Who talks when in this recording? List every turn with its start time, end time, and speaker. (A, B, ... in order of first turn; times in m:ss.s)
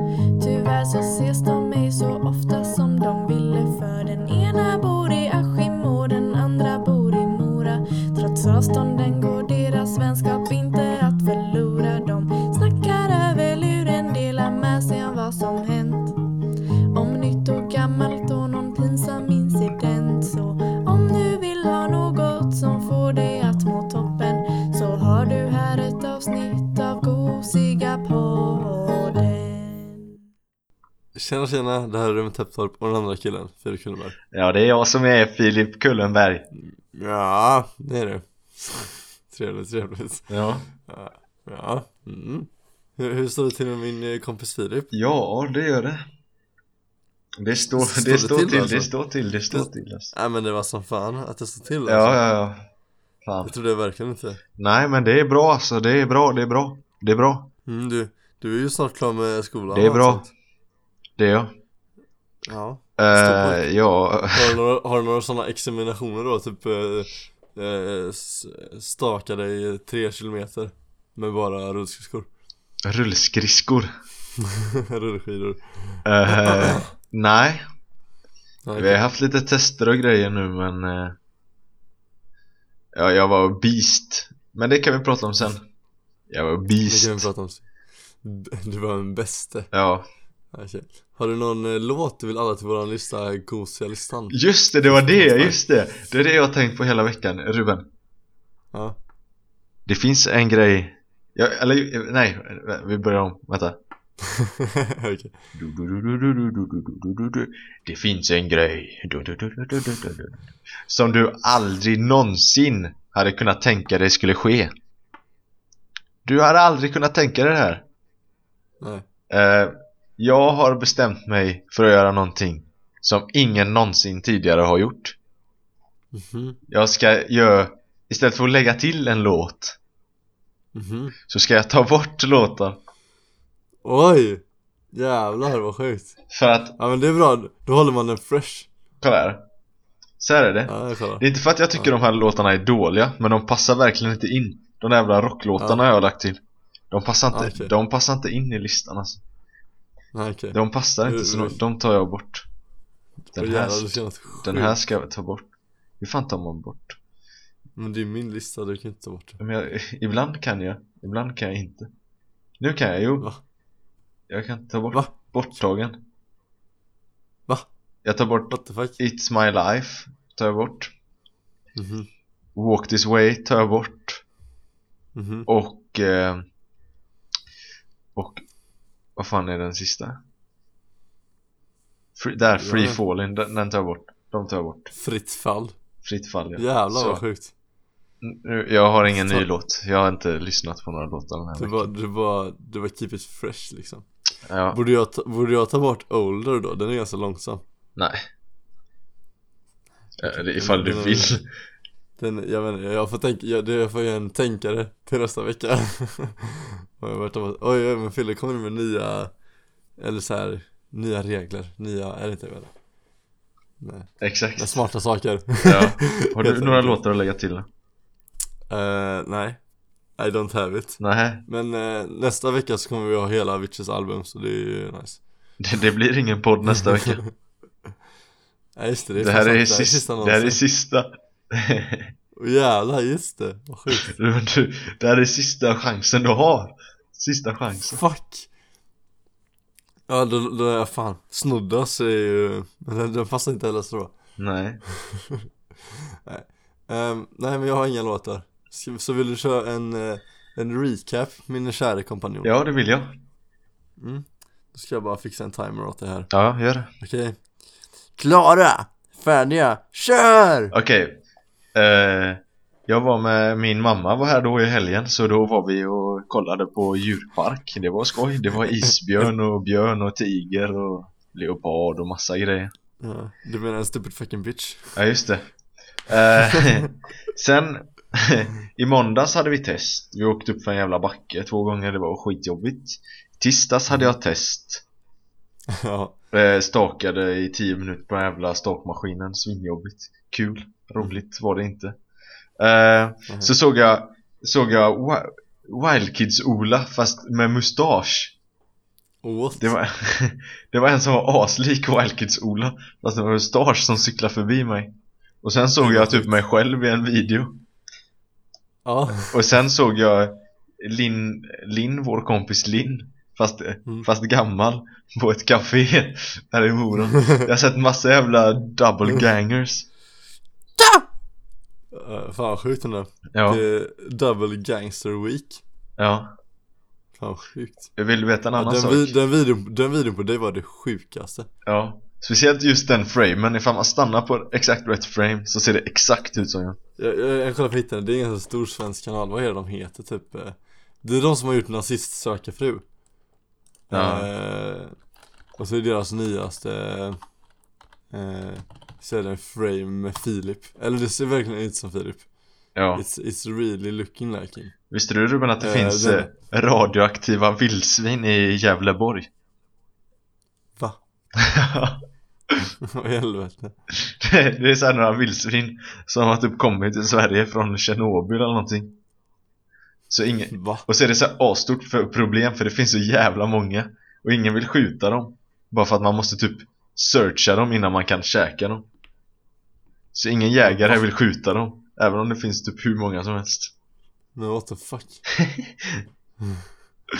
0:00.4-0:16.2 A
0:16.9-0:30.2 A
0:31.1-0:34.2 B
0:34.3-0:36.5 C
0:36.6-0:40.3 B
0:40.3-0:40.7 C
0:40.9-0:44.9 B
0:44.9-0:46.0 C
0:47.4-0:50.1 C
0:47.8-0:48.9 B
0:49.5-0:52.2 B
0:51.9-0:52.6 C
0:53.2-0:53.5 C
0:53.4-0:54.4 B
0:54.6-0:57.5 C
0:57.7-1:00.3 B
0:59.7-1:00.2 C
1:01.2-1:01.6 C
1:02.4-1:03.7 B
1:03.0-1:04.6 C
1:04.3-1:12.3 B
1:12.8-1:13.9 C
1:14.4-1:16.9 B
1:16.0-1:17.6 C
1:18.6-1:19.0 B
1:18.8-1:21.2 C
1:22.9-1:25.6 C
1:26.3-1:27.2 C
1:26.8-1:27.7 B
1:28.2-1:29.7 B
1:29.7-1:30.1 C
1:30.5-1:35.6 B
1:34.3-1:37.8 C
1:39.9-1:43.8 C
1:44.2-1:45.3 B
1:45.6-1:54.7 C
1:56.2-1:57.8 C
1:59.3-2:05.2 C
2:06.1-2:06.6 B
2:06.7-2:09.8 C
2:10.8-2:11.2 B
2:11.3-2:12.8 C
2:13.8-2:14.4 B
2:14.9-2:16.2 B
2:16.3-2:16.8 C
2:16.8-2:18.7 B
2:19.0-2:19.4 C
2:20.2-2:26.4 C
2:20.7-2:21.2 B
2:26.9-2:29.2 C
2:27.3-2:27.7 B
2:30.1-2:31.6 B
2:30.5-2:32.5 C
2:33.3-2:34.8 B
2:33.3-2:37.0 C
2:37.8-2:39.4 B
2:39.4-2:41.9 C
2:42.6-2:43.3 C
2:44.3-2:46.0 C
2:48.0-2:50.9 C
2:48.5-2:49.0 B
2:51.8-2:52.1 B
2:52.5-2:54.2 C
2:55.2-2:55.5 B
2:55.5-2:56.4 C
2:58.2-2:58.4 C
2:59.2-3:00.2 C
3:02.2-3:04.9 C
3:02.5-3:03.0 B
3:04.9-3:05.8 B
3:06.0-3:07.2 C
3:06.6-3:07.5 B
3:08.2-3:11.9 C
3:09.1-3:09.5 B
3:11.6-3:14.1 B
3:14.4-3:14.8 C
3:14.7-3:17.6 B
3:18.0-3:18.2 C
3:20.2-3:21.4 C
3:20.5-3:21.4 B
3:22.2-3:29.3 B
3:30.0-3:32.7 B
3:33.8-3:37.0 B
3:34.2-3:34.8 C
3:35.6-3:37.7 C
3:38.7-3:39.6 B
3:40.2-3:45.2 B
3:41.0-3:41.4 C
3:45.6-3:47.2 C
3:48.8-3:50.6 B
3:49.2-3:52.1 C
3:52.4-3:54.1 B
3:53.9-3:58.0 C
3:57.9-3:58.5 B
4:00.1-4:04.1 B
4:04.4-4:04.8 C
4:05.0-4:05.4 B
4:06.2-4:12.5 B
4:12.4-4:13.2 C
4:14.0-4:16.3 B
4:16.3-4:16.9 C
4:17.0-4:17.4 B
4:18.2-4:20.7 B
4:20.7-4:21.2 C
4:21.8-4:32.7 C
4:33.0-4:35.0 B
4:35.0-4:35.5 C
4:36.1-4:44.8 C
4:36.5-4:36.8 B
4:45.7-4:46.2 B
4:46.3-4:52.0 C
4:52.6-4:58.4 C
4:59.2-4:59.7 B
4:59.6-5:07.6 C
5:05.8-5:06.3 B
5:08.8-5:09.4 B
5:09.3-5:19.9 C
5:17.2-5:17.4 B
5:21.9-5:25.6 B
5:23.3-5:23.6 C
5:26.0-5:26.3 C
5:27.2-5:27.9 B
5:28.0-5:29.2 C
5:28.6-5:31.5 B
5:31.7-5:36.8 C
5:37.0-5:42.8 B
5:43.9-5:45.0 B
5:43.9-5:44.3 C
5:45.6-5:47.2 B
5:48.1-5:52.3 B
5:52.8-5:53.0 C
5:53.0-5:54.7 B
5:54.9-5:59.3 C
5:55.6-5:56.3 B
6:01.4-6:02.7 C
6:02.9-6:03.8 B
6:04.0-6:09.0 C
6:10.1-6:18.9 C
6:10.5-6:10.8 B
6:20.1-6:23.7 C
6:20.6-6:21.0 B
6:24.4-6:25.2 B
6:25.4-6:26.0 C